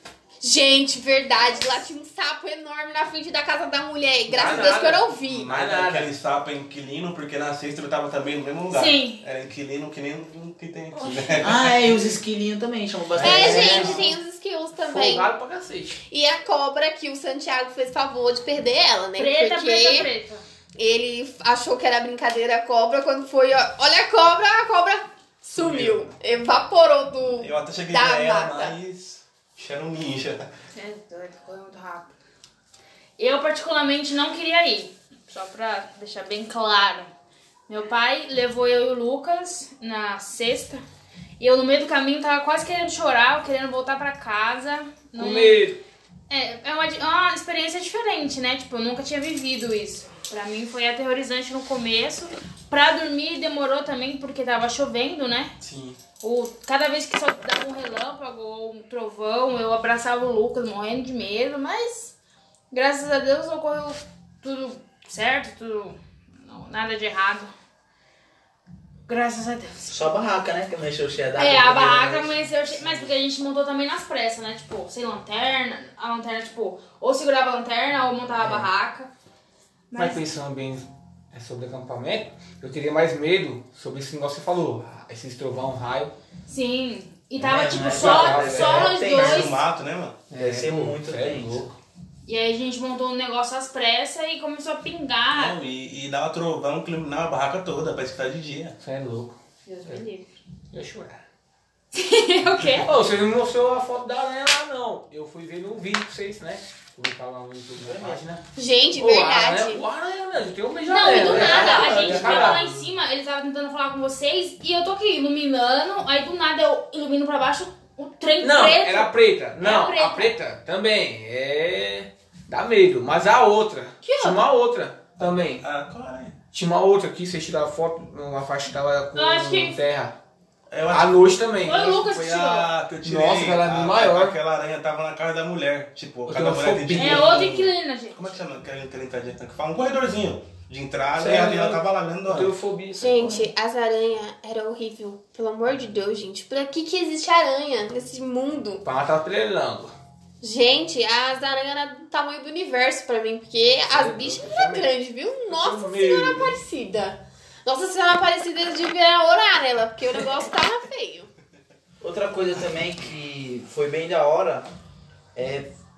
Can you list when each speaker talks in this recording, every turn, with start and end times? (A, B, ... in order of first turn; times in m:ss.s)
0:00.4-0:05.5 A
0:04.3-0:06.1 B
0:05.3-0:12.1 C
0:08.7-0:09.2 D
0:11.0-0:11.3 D
0:11.3-0:11.7 B
0:11.4-0:14.0 E
0:13.2-0:14.1 C
0:13.2-0:14.0 B
0:13.2-0:15.3 A
0:14.8-0:16.0 B
0:16.1-0:20.1 A
0:19.2-0:20.4 D
0:20.8-0:28.7 A
0:25.6-0:26.1 C
0:27.3-0:30.5 C
0:30.7-0:32.1 D
0:33.2-0:37.1 D
0:37.7-0:40.8 D
0:41.4-0:45.6 D
0:45.2-0:45.8 B
0:46.3-0:55.5 D
0:55.6-0:56.0 C
0:56.2-1:02.1 D
1:02.7-1:07.5 D
1:09.1-1:10.1 D
1:09.9-1:12.4 E
1:11.4-1:19.1 D
1:12.7-1:13.1 C
1:18.4-1:18.7 E
1:19.9-1:20.2 D
1:19.9-1:26.1 B
1:26.5-1:29.6 D
1:27.4-1:29.6 E
1:27.6-1:28.9 B
1:29.1-1:30.2 C
1:30.3-1:31.7 B
1:30.4-1:31.7 E
1:32.3-1:35.6 D
1:35.3-1:38.8 C
1:38.8-1:40.0 B
1:39.7-1:40.3 D
1:40.7-1:41.2 B
1:41.9-1:42.9 D
1:42.7-1:48.4 B
1:47.8-1:48.4 E
1:48.6-1:49.8 A
1:48.9-1:52.6 B
1:50.9-2:00.3 D
1:51.2-1:52.6 E
1:51.3-1:52.4 A
1:52.6-1:52.9 C
1:58.4-2:05.6 B
2:04.1-2:04.4 D
2:05.2-2:06.4 C
2:06.5-2:10.1 B
2:09.1-2:09.8 D
2:10.7-2:22.5 C
2:10.9-2:11.9 B
2:11.6-2:12.7 D
2:13.0-2:14.4 B
2:16.3-2:17.3 B
2:17.0-2:18.2 D
2:21.2-2:23.5 B
2:23.0-2:28.8 A
2:28.8-2:29.9 B
2:30.4-2:41.3 A
2:33.9-2:34.9 B
2:35.5-2:36.6 B
2:42.0-2:44.7 E
2:45.4-2:45.7 E